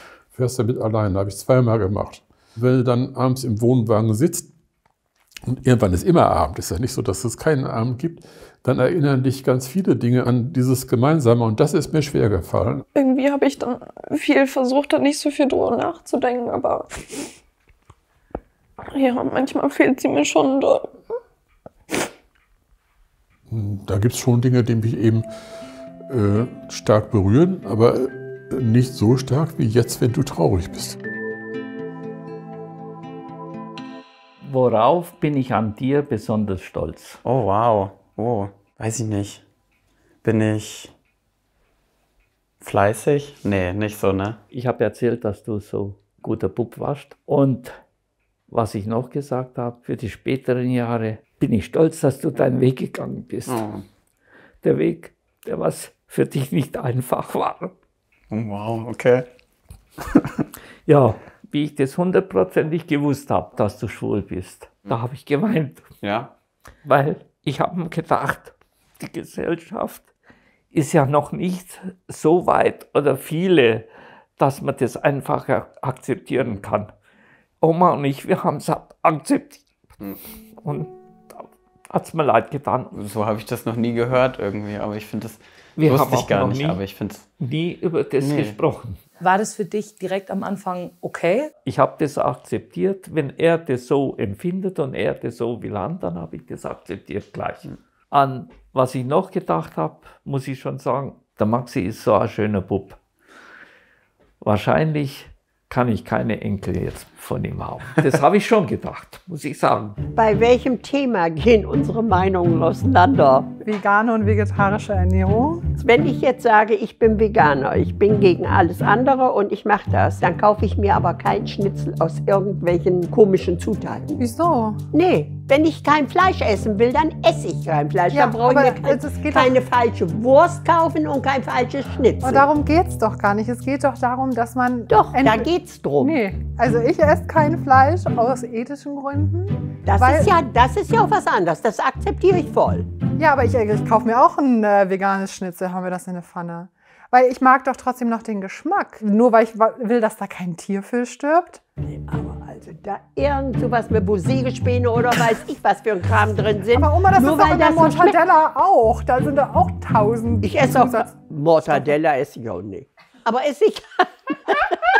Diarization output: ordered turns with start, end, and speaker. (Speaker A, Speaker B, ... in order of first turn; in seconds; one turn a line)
Speaker A: 0.3-4.5
Speaker A: 5.5-12.8
Speaker B: 12.9-17.0
Speaker B: 18.9-20.9
Speaker A: 23.5-25.2
Speaker A: 26.1-31.0
Speaker C: 34.4-37.2
Speaker D: 37.2-39.4
Speaker D: 40.2-40.9
Speaker D: 42.6-44.4
Speaker C: 44.5-47.8
Speaker C: 48.5-53.6
Speaker D: 53.5-53.8
Speaker C: 54.6-57.7
Speaker D: 58.3-59.3
Speaker C: 60.9-65.8
Speaker D: 66.0-66.3
Speaker C: 66.8-70.1
Speaker C: 70.7-76.9
Speaker D: 76.4-76.6
Speaker C: 77.6-79.6
Speaker C: 80.6-83.0
Speaker D: 82.9-87.3
Speaker C: 85.8-86.8
Speaker C: 87.4-89.0
Speaker D: 88.2-88.6
Speaker E: 89.2-91.5
Speaker C: 91.7-103.0
Speaker C: 104.4-110.0
Speaker F: 110.1-113.5
Speaker G: 113.6-115.6
Speaker F: 115.8-124.2
Speaker G: 124.2-124.8
Speaker F: 124.9-132.4
Speaker G: 128.1-129.5
Speaker G: 132.2-135.5
Speaker F: 134.9-136.2
Speaker G: 136.0-140.4
Speaker F: 139.8-142.9
Speaker G: 143.2-151.6
Speaker F: 151.8-158.1
Speaker G: 156.7-161.1
Speaker F: 160.4-164.8